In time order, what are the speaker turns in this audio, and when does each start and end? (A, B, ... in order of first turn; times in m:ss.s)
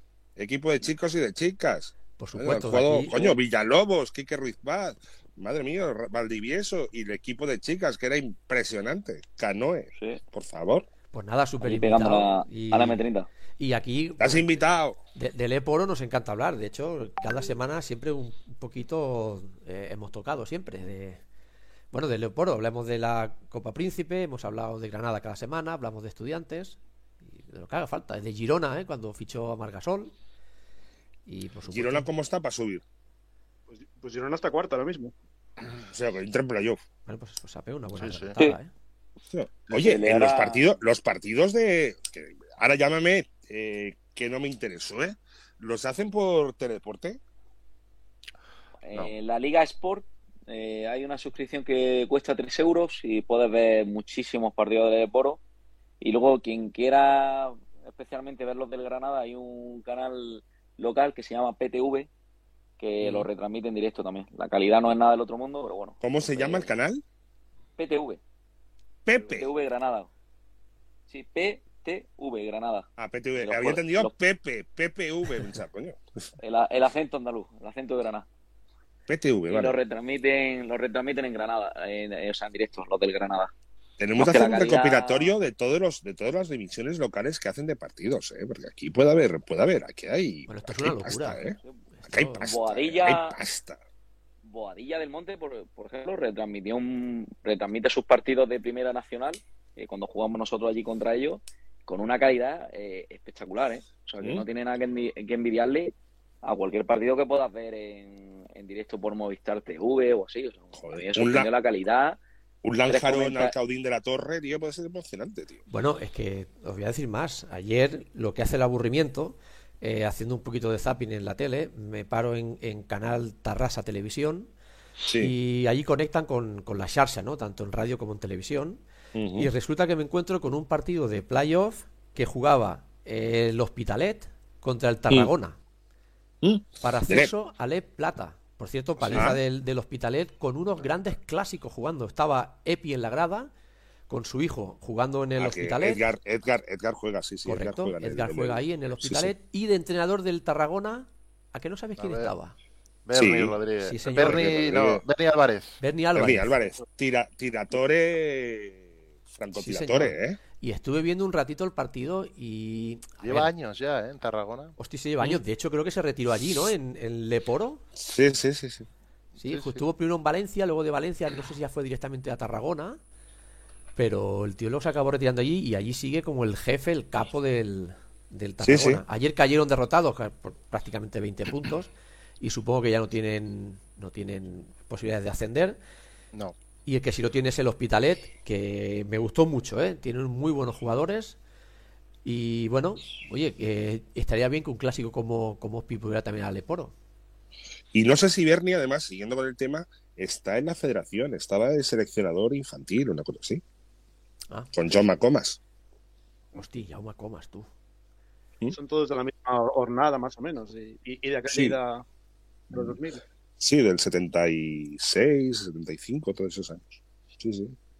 0:00.4-0:10.9 A
0:02.2-0:03.3 B
0:09.9-0:10.2 C
0:11.1-0:13.0 B
0:11.6-0:13.3 C
0:13.6-0:14.5 B
0:14.2-0:15.0 A
0:15.1-0:21.2 B
0:21.9-0:30.1 B
0:31.3-0:32.1 B
0:31.7-0:32.8 A
0:33.7-0:35.1 D
0:35.9-0:36.8 A
0:37.0-0:38.7 B
0:37.9-0:38.4 E
0:39.3-0:47.2 A
0:39.7-0:40.7 C
0:48.8-0:55.4 C
0:56.0-1:02.1 C
1:02.8-1:06.7 C
1:03.0-1:03.3 A
1:06.0-1:07.0 A
1:07.8-1:08.2 C
1:09.0-1:09.5 A
1:09.2-1:10.1 C
1:11.1-1:12.9 C
1:13.0-1:16.0 A
1:13.4-1:14.1 C
1:16.4-1:18.2 C
1:19.1-1:19.8 A
1:19.5-1:23.5 C
1:24.0-1:33.8 A
1:24.2-1:25.3 C
1:30.5-1:31.4 B
1:31.9-1:32.5 B
1:32.4-1:33.4 C
1:34.4-1:52.2 C
1:50.8-1:51.5 A
1:52.6-1:55.6 A
1:52.9-1:53.5 C
1:55.7-2:04.5 B
2:05.0-2:05.3 A
2:05.2-2:08.8 B
2:09.1-2:09.5 A
2:09.4-2:15.6 B
2:16.4-2:17.3 A
2:16.8-2:23.5 B
2:19.0-2:19.4 A
2:24.1-2:26.0 B
2:25.4-2:29.3 A
2:27.4-2:32.5 B
2:32.0-2:32.3 E
2:33.0-2:35.8 E
2:33.1-2:33.6 A
2:33.8-2:34.6 B
2:34.2-2:35.0 A
2:35.8-2:36.6 B
2:36.1-2:40.4 A
2:39.5-2:43.5 B
2:43.2-2:44.8 E
2:44.8-2:47.8 B
2:48.0-2:48.9 A
2:49.4-2:49.8 E
2:49.4-2:53.0 B
2:54.0-3:01.9 B
2:58.6-2:59.0 A
3:02.4-3:05.8 B
3:06.8-3:11.4 B
3:12.2-3:16.9 B
3:17.9-3:23.6 A
3:24.5-3:24.8 B
3:24.7-3:25.6 A
3:26.6-3:27.7 B
3:28.7-3:32.0 D
3:31.5-3:31.8 A
3:32.7-3:33.2 D
3:32.7-3:33.0 A
3:33.6-3:37.8 A